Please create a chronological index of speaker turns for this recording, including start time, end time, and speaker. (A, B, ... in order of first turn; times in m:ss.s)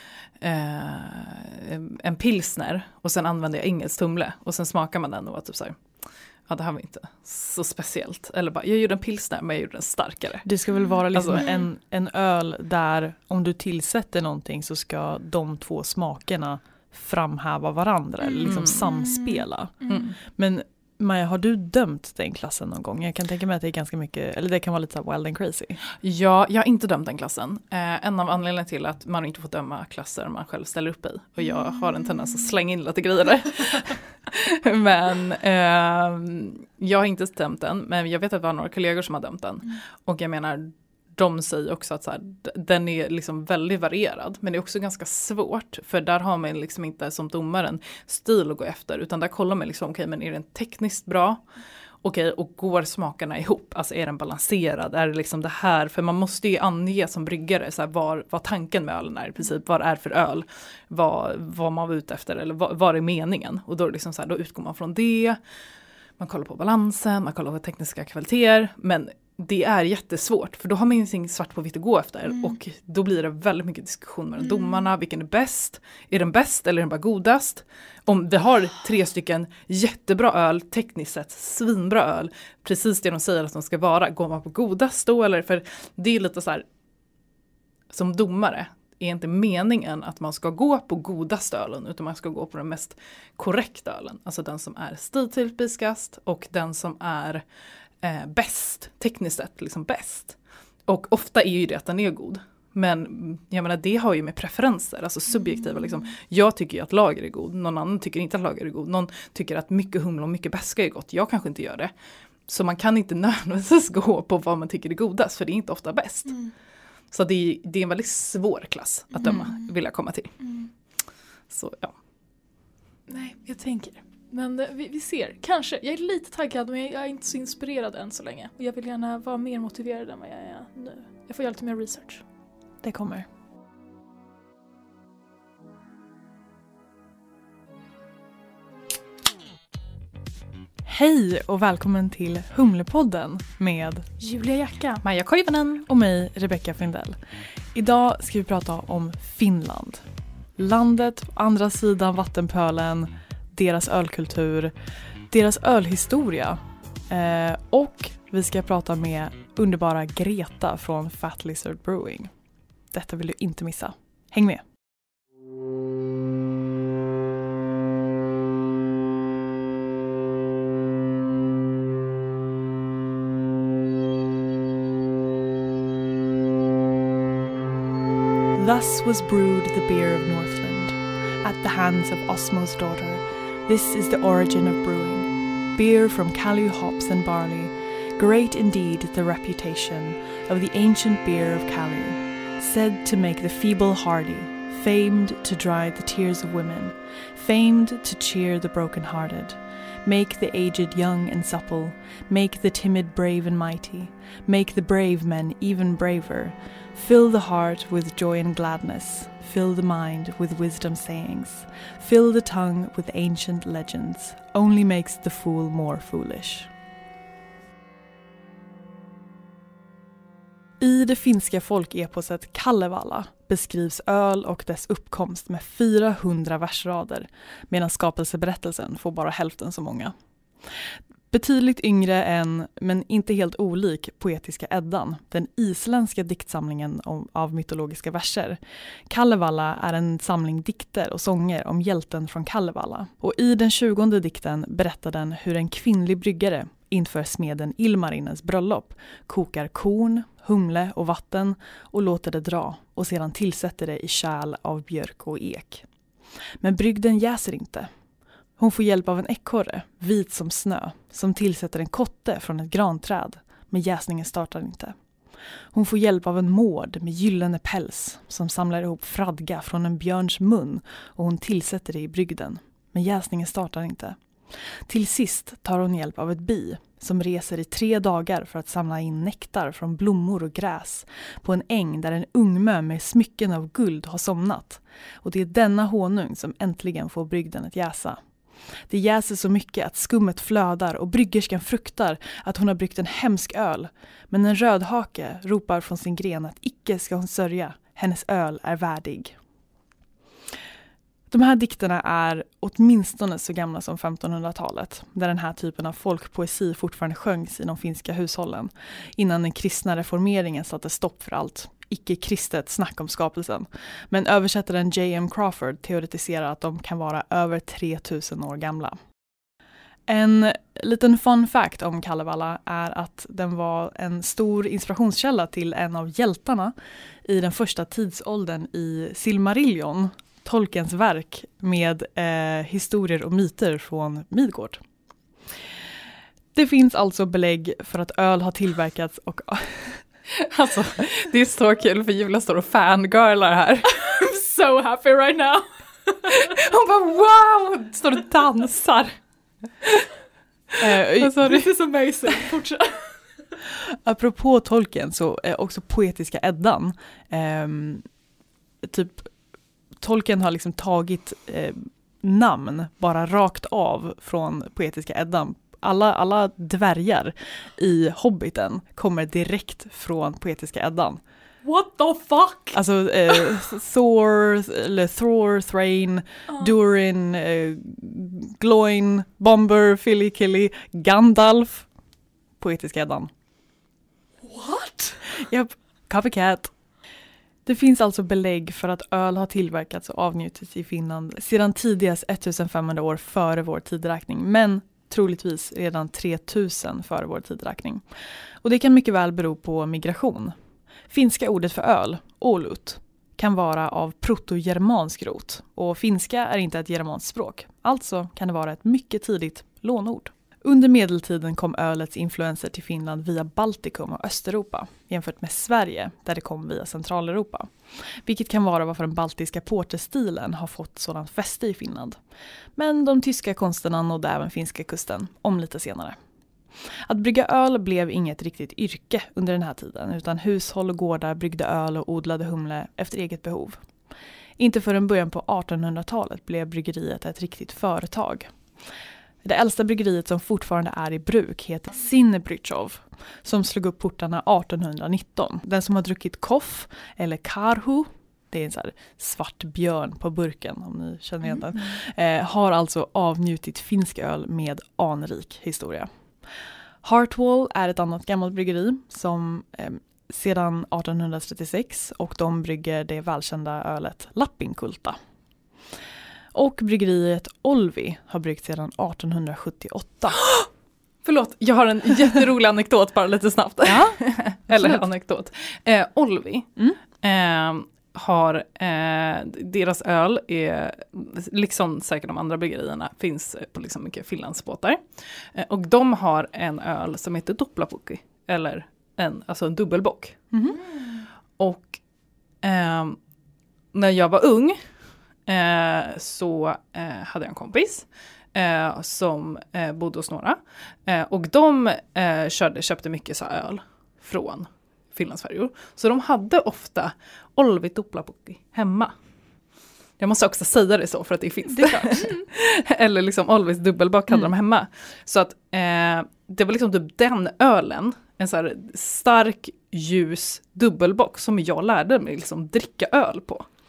0:00.4-0:10.5 A
0:10.4-0:25.8 B
0:11.1-0:11.4 A
0:11.4-0:11.6 C
0:18.2-0:20.1 C
0:18.4-0:18.8 A
0:19.9-0:20.1 A
0:26.0-0:51.5 A
0:52.0-1:05.4 A
1:06.2-1:26.6 A
1:14.4-1:14.9 C
1:27.9-1:37.4 A
1:38.0-1:51.9 A
1:52.4-1:56.4 A
1:56.3-1:56.5 C
1:57.1-2:00.3 A
1:59.1-1:59.7 C
2:00.4-2:00.7 C
2:01.5-2:02.0 A
2:03.1-2:12.2 C
2:12.8-2:13.2 B
2:20.8-2:24.0 B
2:24.2-2:25.0 C
2:25.0-2:25.8 A
2:25.8-2:27.2 B
2:27.7-2:30.0 B
2:30.6-2:34.7 B
2:35.3-2:42.3 B
2:42.9-2:44.6 B
2:58.5-3:36.7 B
3:40.8-3:50.1 B
3:51.3-4:15.8 B
4:16.6-4:17.9 B
4:18.6-4:25.0 B
4:25.7-4:48.2 B
4:48.9-4:59.4 B
5:01.3-5:19.0 B
5:20.1-5:34.8 B
5:36.5-5:40.0 B
5:40.3-5:43.9 A
5:43.9-5:46.5 C
5:46.4-5:49.2 A
5:50.8-5:51.3 B
5:51.2-5:51.6 A
5:51.4-5:53.1 C
5:53.8-5:58.0 B
5:58.8-5:59.3 B
6:00.0-6:11.2 B
6:11.6-6:12.8 C
6:12.7-6:21.9 B
6:22.6-6:23.3 B
6:24.4-6:25.2 C
6:25.3-6:26.7 B
6:27.6-6:38.0 B
6:38.6-6:40.5 B
6:41.1-7:02.2 B
7:02.8-7:06.2 B
7:06.8-7:13.8 B
7:14.6-7:18.5 B
7:19.4-7:36.1 B
7:37.0-7:45.2 B
7:46.5-7:50.4 B
7:51.2-8:10.4 A
7:53.8-7:55.0 B
8:10.5-8:10.8 B
8:11.6-8:12.0 A
8:12.6-8:13.2 A
8:13.9-8:14.8 A
8:15.4-8:29.1 A
8:30.2-8:43.7 A
8:31.8-8:32.2 B